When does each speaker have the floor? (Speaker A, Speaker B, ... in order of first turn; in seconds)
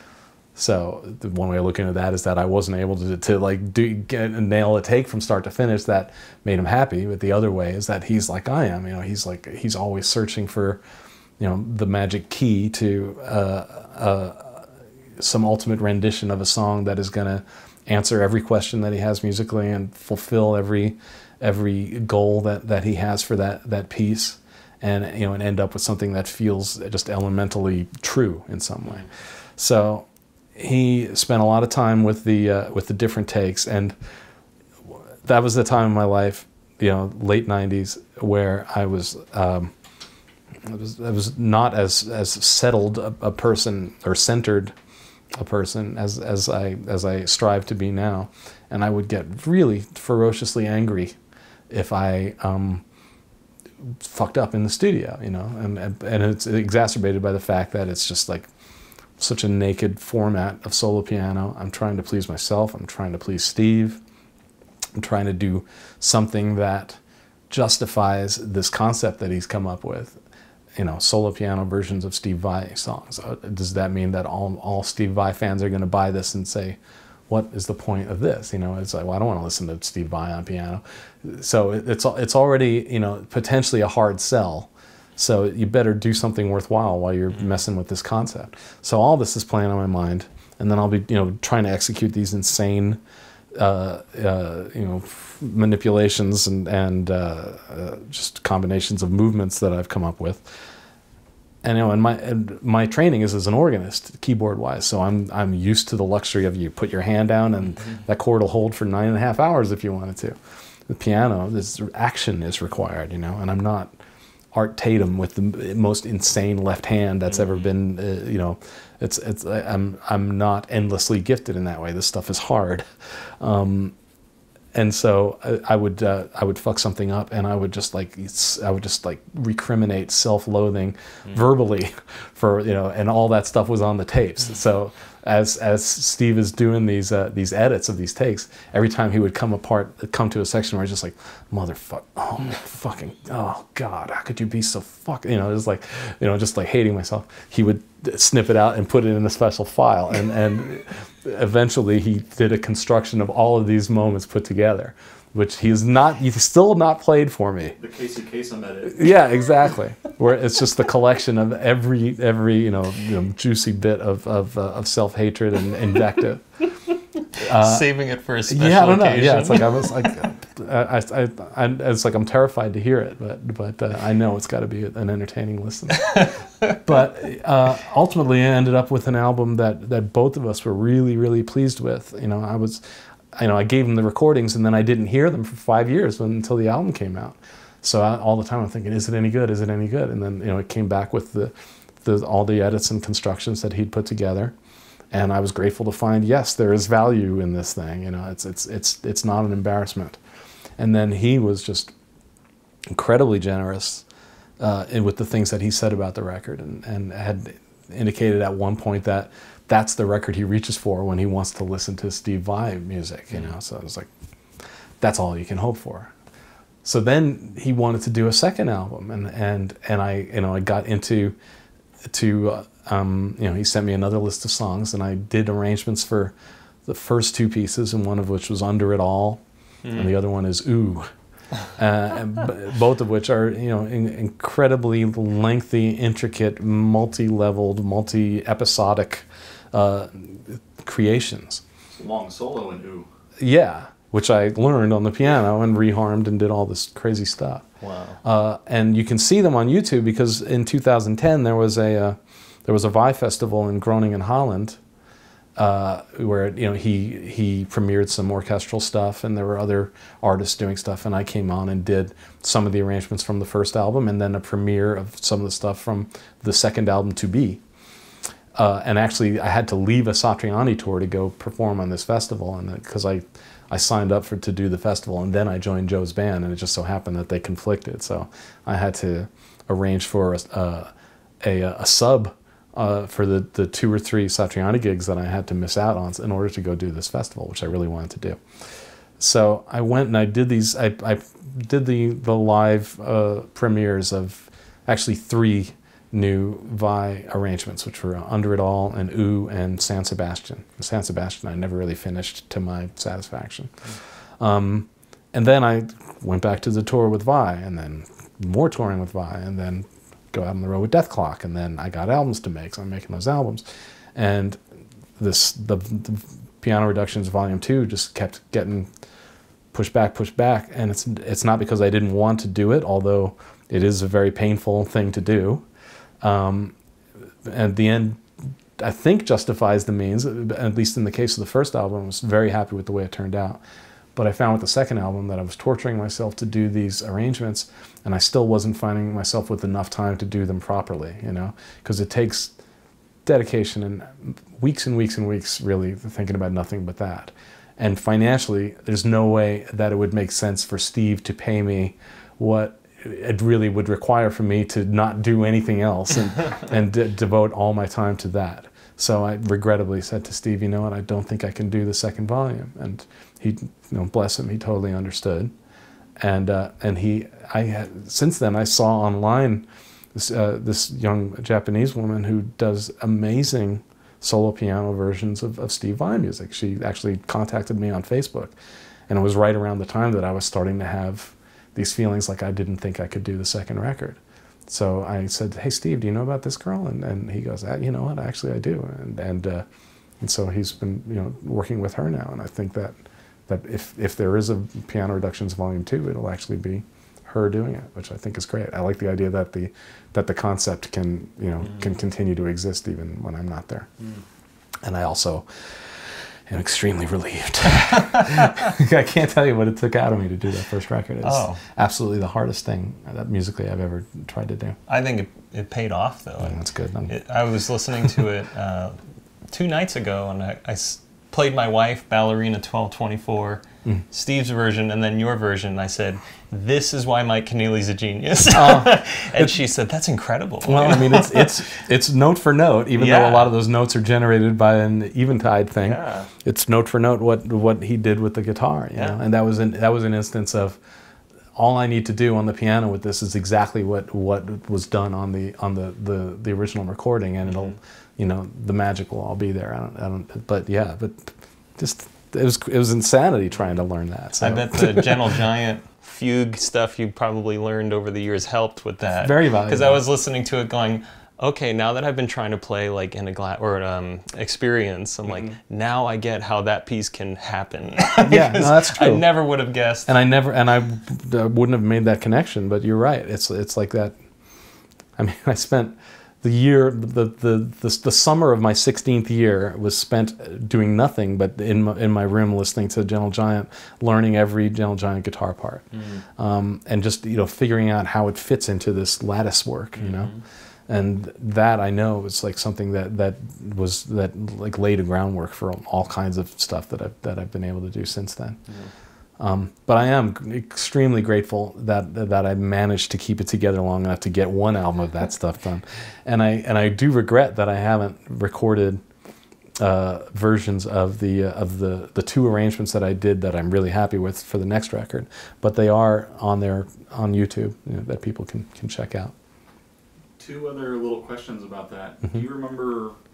Speaker A: 0.6-10.8, 11.4-34.0, 34.9-39.7, 40.6-44.7, 45.3-51.1, 51.7-52.8, 54.0-58.5, 59.2-64.0, 65.0-67.0, 67.5-70.2, 70.8-76.8, 77.3-93.0, 93.5-100.6, 101.6-113.9, 114.5-123.9, 124.7-157.8, 158.9-166.4, 167.3-167.9, 168.5-182.8, 183.3-194.6, 195.1-200.2, 200.8-201.9, 202.9-204.1, 204.6-214.1, 215.0-216.1, 216.8-221.3, 222.1-226.3, 226.8-229.4, 229.9-231.1, 231.8-241.6, 243.4-247.7, 248.2-254.8, 255.6-267.6, 268.6-313.6, 314.1-314.6, 315.2-318.9, 319.7-325.6, 326.2-326.8, 327.4-328.2, 328.8-333.6, 334.1-342.5, 343.2-365.5, 366.2-378.6, 379.1-389.6, 390.2-403.9, 404.8-414.8, 416.4-417.1, 428.5-429.5, 430.6-440.8, 441.6-455.2, 459.2-460.0, 468.2-469.3, 470.1-474.1, 475.2-490.3, 490.9-498.6, 499.4-509.0, 509.8-519.3
Speaker B: 157.8-159.1, 241.9-243.1, 520.4-523.1
Speaker C: 167.4-169.9, 176.0-176.7, 229.8-230.1, 247.8-248.2, 407.9-408.6, 411.2-411.6, 414.9-419.0, 419.5-431.8, 432.9-433.5, 435.8-436.3, 438.9-439.2, 454.4-470.1, 485.9-486.2, 490.0-490.4